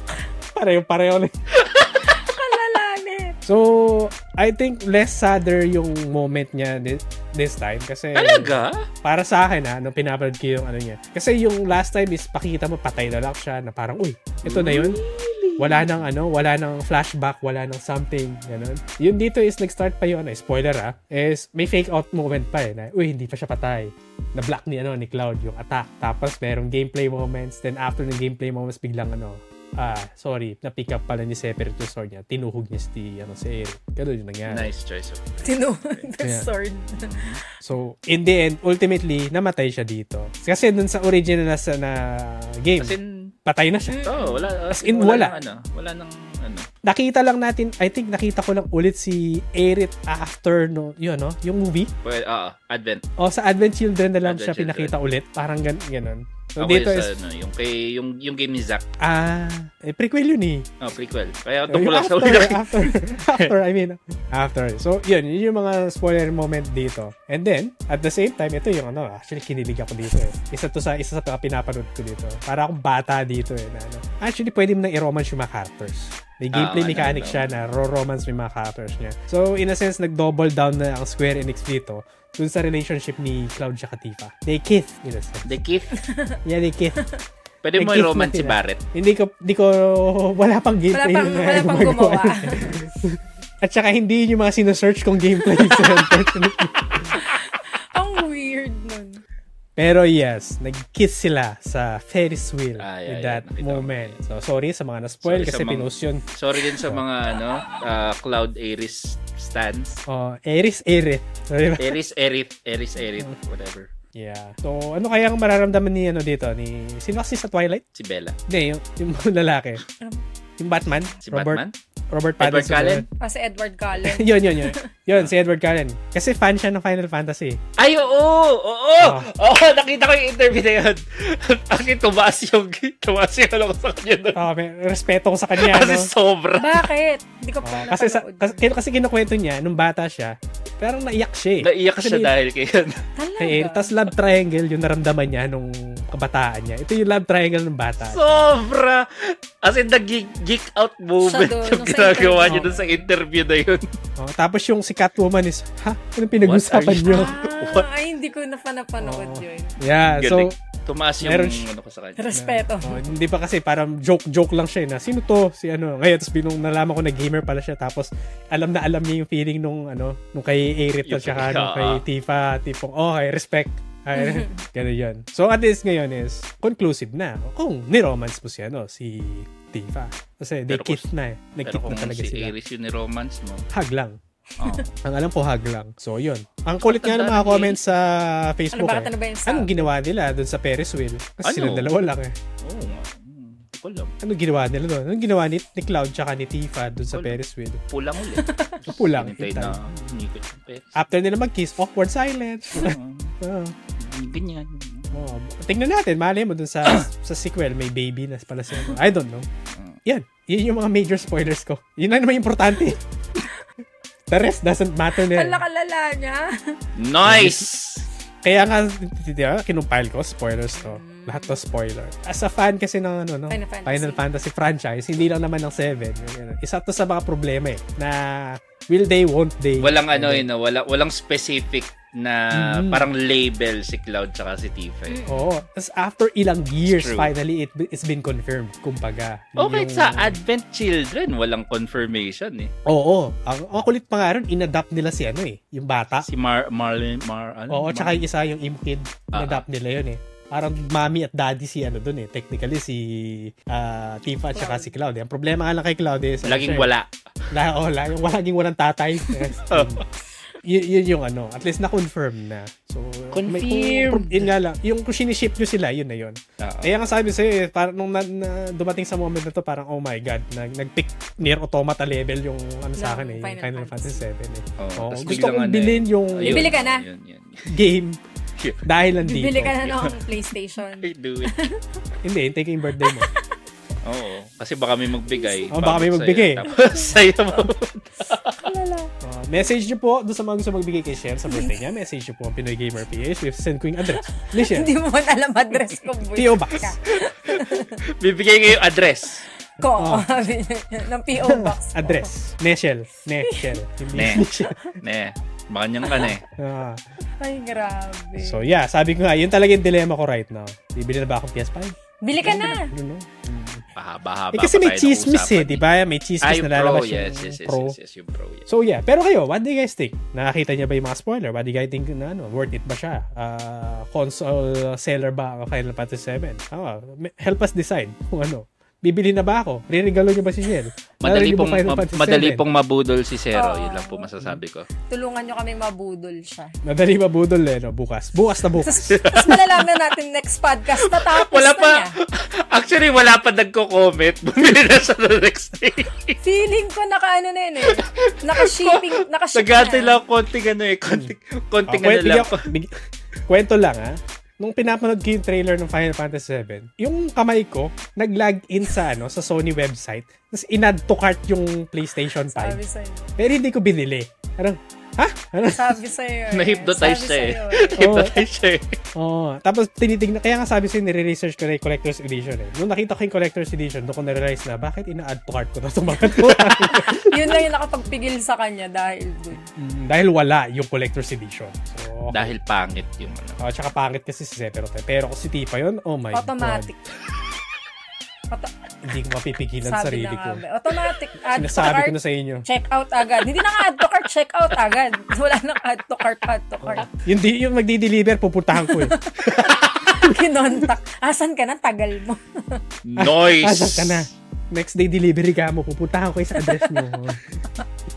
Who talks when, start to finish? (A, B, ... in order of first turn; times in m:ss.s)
0:00.5-0:01.3 A
0:01.5-0:02.2 B
0:02.0-0:03.4 C
0:03.4-0:15.0 A
0:08.1-0:08.9 B
0:14.4-0:16.0 B
0:15.6-0:34.7 A
0:34.5-0:36.0 B
0:35.4-0:37.3 C
0:36.2-0:36.5 A
0:36.9-0:37.4 B
0:37.6-0:44.1 A
0:42.8-0:43.3 B
0:43.9-0:44.5 C
0:44.0-0:46.7 B
0:44.7-0:45.3 A
0:46.8-0:51.9 A
0:52.0-0:53.0 B
0:53.2-0:57.2 A
0:54.2-0:54.9 B
0:56.6-0:58.8 B
0:59.0-1:00.7 A
1:00.8-1:03.5 B
1:01.7-1:25.6 A
1:16.5-1:17.5 B
1:25.4-1:26.0 B
1:26.0-1:26.4 C
1:26.4-1:27.0 A
1:27.6-1:28.8 B
1:27.8-1:37.1 A
1:30.9-1:32.9 C
1:35.5-1:36.3 C
1:37.1-1:39.2 C
1:39.8-1:46.2 A
1:42.8-1:44.2 B
1:45.2-1:50.0 B
1:50.1-1:52.0 A
1:51.8-1:53.9 B
1:54.1-1:57.8 A
1:57.9-1:58.4 B
1:58.5-1:59.8 A
2:00.6-2:03.1 A
2:01.2-2:01.7 B
2:02.4-2:03.0 B
2:03.2-2:04.9 C
2:04.0-2:07.6 A
2:07.8-2:14.4 B
2:09.0-2:09.3 A
2:14.3-2:16.1 A
2:15.6-2:16.9 B
2:16.6-2:18.6 C
2:17.6-2:22.3 A
2:21.6-2:23.0 B
2:23.2-2:23.9 C
2:23.4-2:28.5 A
2:28.0-2:33.8 B
2:31.2-2:33.0 C
2:32.4-2:32.7 A
2:34.2-2:37.2 A
2:36.4-2:37.9 B
2:37.0-2:39.8 C
2:39.0-2:40.5 A
2:40.1-2:42.3 B
2:41.2-2:41.7 A
2:42.2-2:43.1 C
2:42.3-3:02.5 A
2:51.0-2:52.0 B
2:54.1-2:54.6 C
3:00.7-3:01.1 B
3:01.6-3:03.7 B
3:03.7-3:04.2 A
3:04.6-3:04.9 C
3:04.6-3:05.0 B
3:05.0-3:12.4 A
3:06.8-3:07.8 B
3:08.7-3:09.9 C
3:11.4-3:12.0 B
3:12.6-3:14.1 B
3:14.2-3:17.8 A
3:17.1-3:21.0 B
3:18.3-3:18.8 C
3:18.9-3:20.0 A
3:20.9-3:23.7 A
3:22.7-3:23.3 B
3:24.0-3:25.2 B
3:25.1-3:29.5 A
3:29.7-3:30.0 B
3:30.0-3:33.0 A
3:34.3-3:35.6 A
3:35.2-3:36.8 C
3:37.0-3:38.0 B
3:37.2-3:37.7 A
3:38.4-3:50.4 A
3:40.8-3:41.6 C
3:43.5-3:44.2 C
3:49.8-3:55.2 B
3:52.5-3:53.1 A
3:55.1-3:55.5 C
3:55.3-4:00.4 A
3:56.9-3:57.3 B
3:59.6-4:02.7 B
4:02.9-4:06.3 A
4:06.3-4:08.2 B
4:07.7-4:16.9 A
4:09.3-4:09.6 B
4:14.5-4:14.9 C
4:16.4-4:17.1 B
4:17.5-4:20.0 A
4:19.6-4:20.0 B
4:20.6-4:36.7 A
4:23.3-4:24.5 B
4:26.6-4:26.9 B
4:33.0-4:34.2 C
4:34.8-4:37.7 B
4:36.4-4:37.0 C
4:37.7-4:38.2 A
4:38.6-4:38.8 B
4:38.8-4:39.7 A
4:39.2-4:41.8 C
4:39.7-4:40.1 B
4:41.0-4:41.7 B
4:42.2-4:43.3 A
4:43.0-4:43.5 C
4:44.0-4:48.6 B
4:45.3-4:45.7 C
4:45.7-4:46.6 A
4:46.7-4:47.7 C
4:48.6-4:49.1 C
4:49.2-4:54.9 A
4:54.3-4:58.0 C
4:56.3-4:56.9 A
4:57.5-4:59.4 B
4:59.8-5:02.3 C
4:59.9-5:00.3 A
5:01.4-5:04.8 A
5:03.4-5:03.8 C
5:04.1-5:04.5 B
5:05.0-5:06.4 B
5:06.0-5:06.4 C
5:06.6-5:07.0 A
5:07.4-5:08.6 C
5:08.4-5:13.8 A
5:12.2-5:12.9 C
5:14.0-5:15.8 B
5:14.5-5:18.0 A
5:16.4-5:18.7 B
5:18.7-5:32.6 A
5:31.2-5:34.9 B
5:33.5-5:34.3 C
5:35.1-5:36.7 C
5:36.8-5:39.1 A
5:38.8-5:42.2 C
5:39.0-5:39.9 B
5:41.0-5:46.4 B
5:46.4-5:50.2 C
5:47.8-5:52.7 B
5:51.8-5:52.9 A
5:53.5-6:02.8 A
6:02.5-6:03.4 C
6:03.4-6:06.0 A
6:05.8-6:08.2 C
6:06.5-6:09.0 B
6:08.0-6:08.4 A
6:09.1-6:17.3 A
6:16.3-6:17.1 B
6:17.2-6:19.7 C
6:19.7-6:22.6 A
6:22.3-6:23.6 B
6:23.6-6:26.9 A
6:26.3-6:27.0 C
6:29.0-6:30.6 A
6:29.8-6:37.1 C
6:31.5-6:32.6 A
6:36.8-6:39.1 A
6:38.8-6:42.8 C
6:39.4-6:40.2 B
6:43.0-6:44.3 B
6:43.2-6:47.4 A
6:46.6-6:47.1 C